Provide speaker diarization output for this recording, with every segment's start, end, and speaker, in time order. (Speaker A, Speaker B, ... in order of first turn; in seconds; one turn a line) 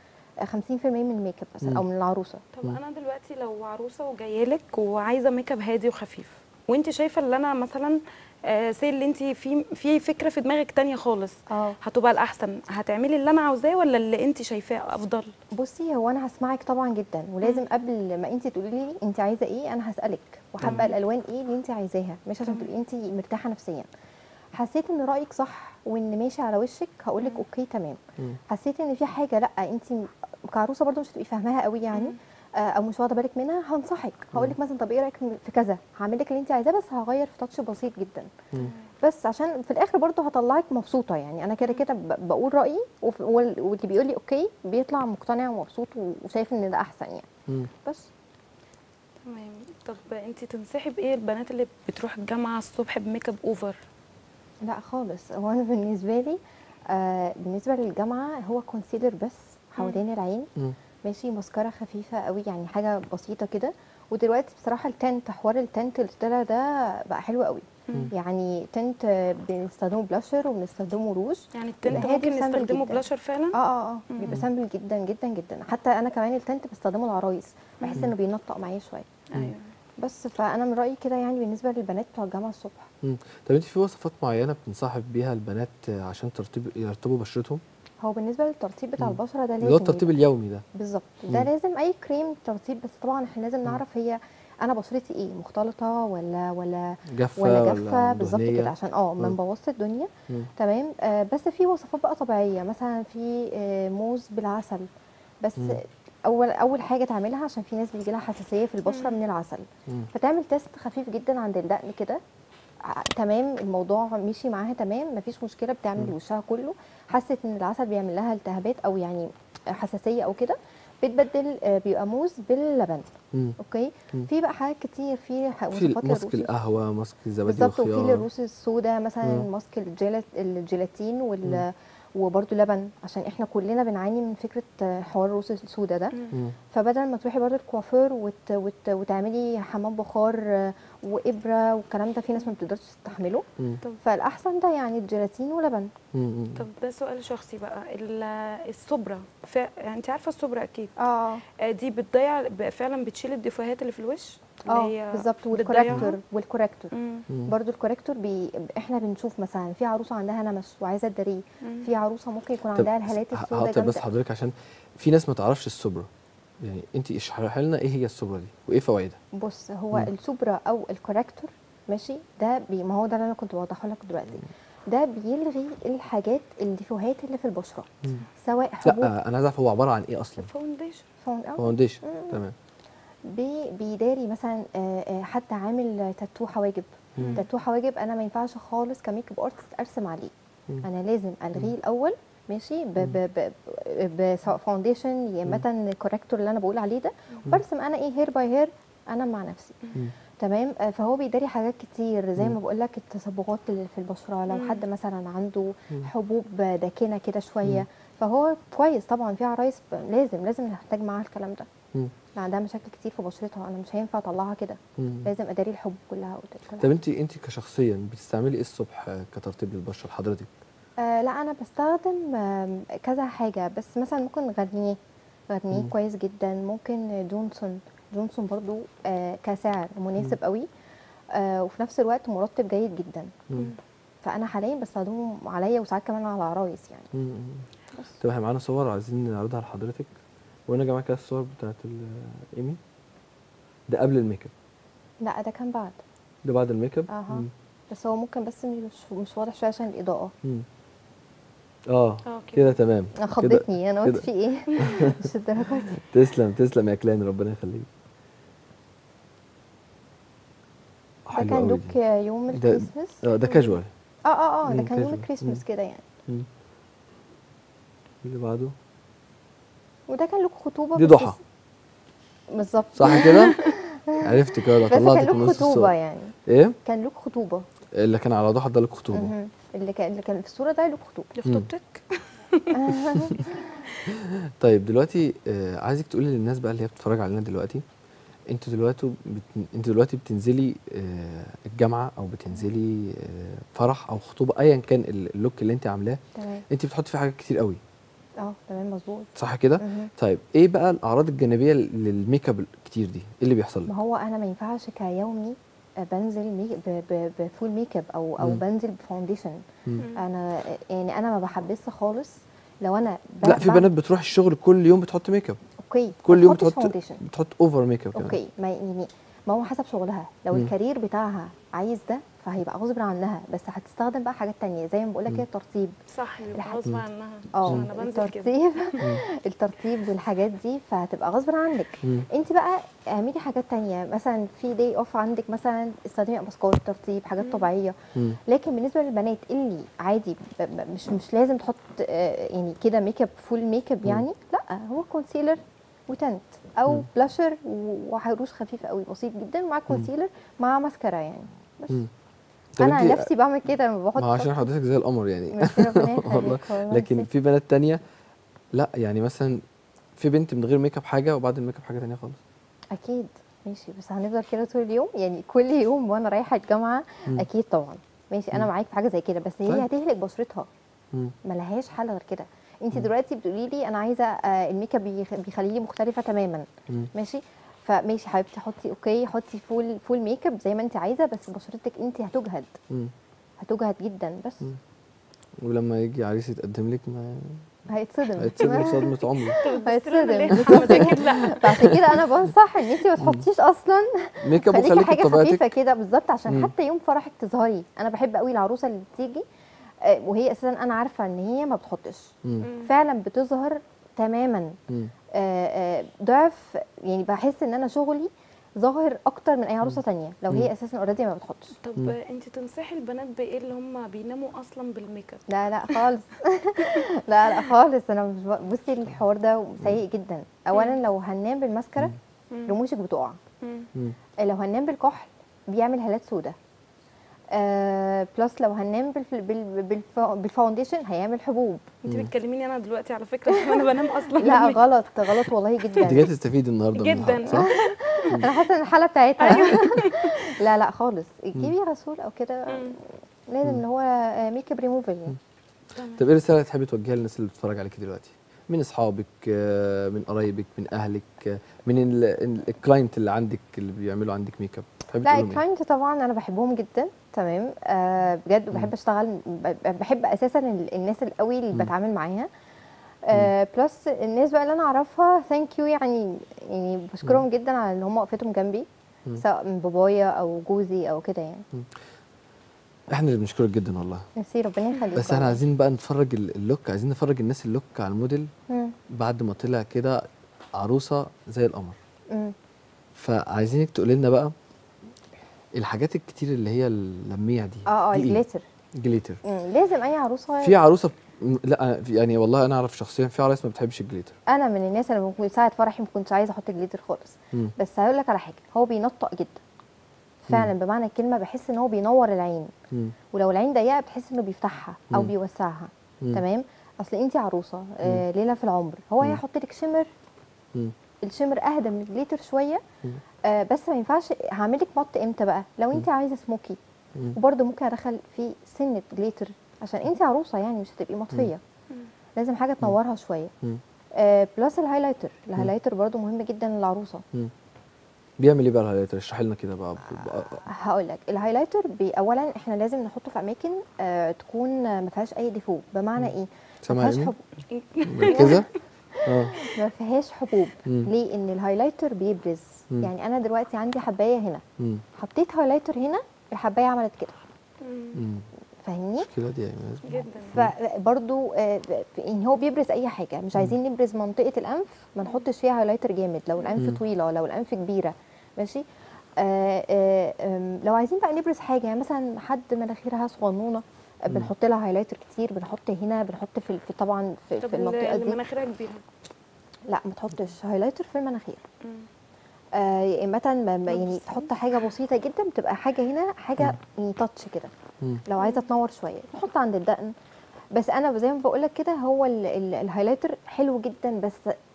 Speaker A: 0.4-2.4
Speaker B: 2.5-15.3
Speaker A: 11.5-11.8
Speaker A: 15.5-23.9
Speaker C: 20.6-20.9
Speaker B: 20.6-20.9
Speaker A: 24.5-38.5
Speaker B: 31.9-32.2
Speaker B: 38.5-38.9
Speaker A: 39.0-47.3
Speaker A: 47.8-48.1
Speaker B: 49.2-53.8
Speaker A: 54.6-56.4
Speaker A: 56.9-60.5
Speaker A: 61.0-73.0
Speaker B: 67.9-68.1
Speaker B: 71.5-73.6
Speaker A: 73.5-79.1
Speaker B: 74.1-74.4
Speaker B: 77.8-78.1
Speaker B: 79.3-79.7
Speaker A: 80.0-82.9
Speaker C: 83.0-87.6
Speaker A: 88.0-104.9
Speaker C: 89.0-90.6
Speaker C: 97.1-99.3
Speaker A: 105.4-112.2
Speaker B: 108.8-109.2
Speaker A: 112.8-126.5
Speaker C: 125.7-128.3
Speaker A: 127.5-136.1
Speaker C: 129.2-129.5
Speaker B: 136.1-136.4
Speaker A: 136.7-143.4
Speaker A: 144.0-145.9
Speaker C: 146.1-146.6
Speaker B: 146.6-150.9
Speaker A: 151.0-151.4
Speaker B: 151.6-156.2
Speaker A: 154.7-156.9
Speaker B: 156.9-157.3
Speaker A: 157.5-164.1
Speaker B: 161.6-161.9
Speaker C: 162.7-166.1
Speaker C: 166.6-169.2
Speaker A: 169.4-179.1
Speaker C: 178.8-180.5
Speaker B: 180.4-181.1
Speaker A: 181.2-182.4
Speaker C: 181.6-182.5
Speaker A: 183.3-199.8
Speaker C: 187.2-187.4
Speaker B: 187.2-187.4
Speaker A: 200.4-211.7
Speaker B: 204.5-204.8
Speaker A: 212.3-216.9
Speaker C: 215.0-215.3
Speaker C: 216.8-220.5
Speaker A: 221.0-225.0
Speaker A: 225.5-230.7
Speaker A: 231.3-233.3
Speaker A: 234.2-237.1
Speaker C: 237.1-237.7
Speaker C: 238.2-240.1
Speaker C: 240.7-242.8
Speaker C: 243.9-244.5
Speaker A: 245.2-246.0
Speaker C: 246.4-247.5
Speaker A: 247.1-250.3
Speaker C: 251.9-255.2
Speaker B: 252.2-252.7
Speaker A: 253.2-256.0
Speaker B: 254.8-255.1
Speaker C: 256.0-257.9
Speaker C: 261.3-261.9
Speaker A: 261.3-263.2
Speaker C: 262.5-263.9
Speaker B: 263.4-263.8
Speaker A: 264.2-266.0
Speaker C: 264.7-265.6
Speaker C: 268.2-268.7
Speaker A: 270.1-271.4
Speaker C: 270.9-271.4
Speaker A: 272.5-277.6
Speaker C: 272.9-275.9
Speaker B: 273.2-273.7
Speaker C: 276.4-276.8
Speaker C: 277.9-279.3
Speaker A: 279.1-281.3
Speaker B: 281.4-283.0
Speaker A: 282.7-283.9
Speaker C: 282.9-283.4
Speaker C: 284.1-287.8
Speaker C: 288.5-297.8
Speaker A: 296.4-296.6
Speaker A: 298.4-300.1
Speaker C: 299.4-303.9
Speaker A: 303.9-309.6
Speaker B: 310.0-310.2
Speaker A: 310.1-313.9
Speaker C: 313.4-315.6
Speaker A: 315.8-317.2
Speaker C: 316.2-318.4
Speaker A: 318.1-325.9
Speaker B: 326.1-329.1
Speaker A: 326.5-326.9
Speaker A: 327.5-337.9
Speaker B: 337.4-337.7
Speaker A: 338.5-352.0
Speaker C: 352.8-353.3
Speaker A: 352.8-354.6
Speaker C: 354.1-358.0
Speaker A: 355.5-357.3
Speaker C: 358.7-359.6
Speaker C: 360.2-362.4
Speaker A: 362.9-370.7
Speaker A: 371.4-382.8
Speaker A: 383.6-384.7
Speaker C: 385.6-387.6
Speaker A: 387.9-399.4
Speaker C: 388.4-389.6
Speaker B: 389.5-391.9
Speaker C: 390.5-391.3
Speaker C: 393.2-393.4
Speaker C: 394.4-395.7
Speaker A: 400.0-404.8
Speaker B: 402.6-402.9
Speaker A: 405.3-411.8
Speaker B: 411.8-416.0
Speaker A: 415.5-423.4
Speaker B: 416.8-417.7
Speaker B: 420.7-421.0
Speaker B: 422.5-422.8
Speaker B: 423.6-423.9
Speaker A: 424.4-426.5
Speaker A: 427.5-431.9
Speaker B: 432.0-436.0
Speaker C: 432.1-432.3
Speaker A: 433.5-436.3
Speaker C: 436.0-437.7
Speaker B: 436.9-438.5
Speaker A: 437.4-445.4
Speaker B: 439.4-440.4
Speaker B: 442.7-443.0
Speaker B: 445.9-446.2
Speaker C: 446.1-455.6
Speaker A: 455.2-462.5
Speaker A: 463.2-471.6
Speaker C: 473.1-474.2
Speaker A: 474.4-475.6
Speaker C: 475.1-478.5
Speaker A: 478.7-478.9
Speaker C: 479.1-482.0
Speaker C: 483.1-484.5
Speaker C: 485.7-488.4
Speaker A: 487.9-488.6
Speaker C: 488.9-489.4
Speaker A: 489.4-490.8
Speaker C: 490.6-494.4
Speaker A: 494.5-499.6
Speaker A: 500.4-502.7
Speaker A: 503.3-510.1
Speaker A: 511.2-512.8
Speaker A: 513.4-516.8
Speaker A: 517.3-521.6
Speaker A: 522.4-523.5
Speaker A: 524.1-527.2
Speaker C: 528.4-530.6
Speaker A: 530.1-537.4
Speaker C: 536.8-537.3
Speaker B: 537.7-538.7
Speaker C: 538.0-538.7
Speaker A: 538.3-538.6
Speaker A: 539.1-544.6
Speaker C: 539.2-539.7
Speaker A: 545.1-547.4
Speaker B: 547.8-548.2
Speaker C: 548.1-548.5
Speaker A: 548.8-549.3
Speaker C: 549.2-550.7
Speaker B: 550.0-550.6
Speaker A: 550.4-558.8
Speaker A: 559.4-568.4
Speaker B: 567.6-569.0
Speaker A: 569.9-571.6
Speaker A: 572.7-577.7
Speaker B: 573.9-574.5
Speaker A: 578.2-580.1
Speaker B: 578.4-578.7
Speaker A: 580.7-584.5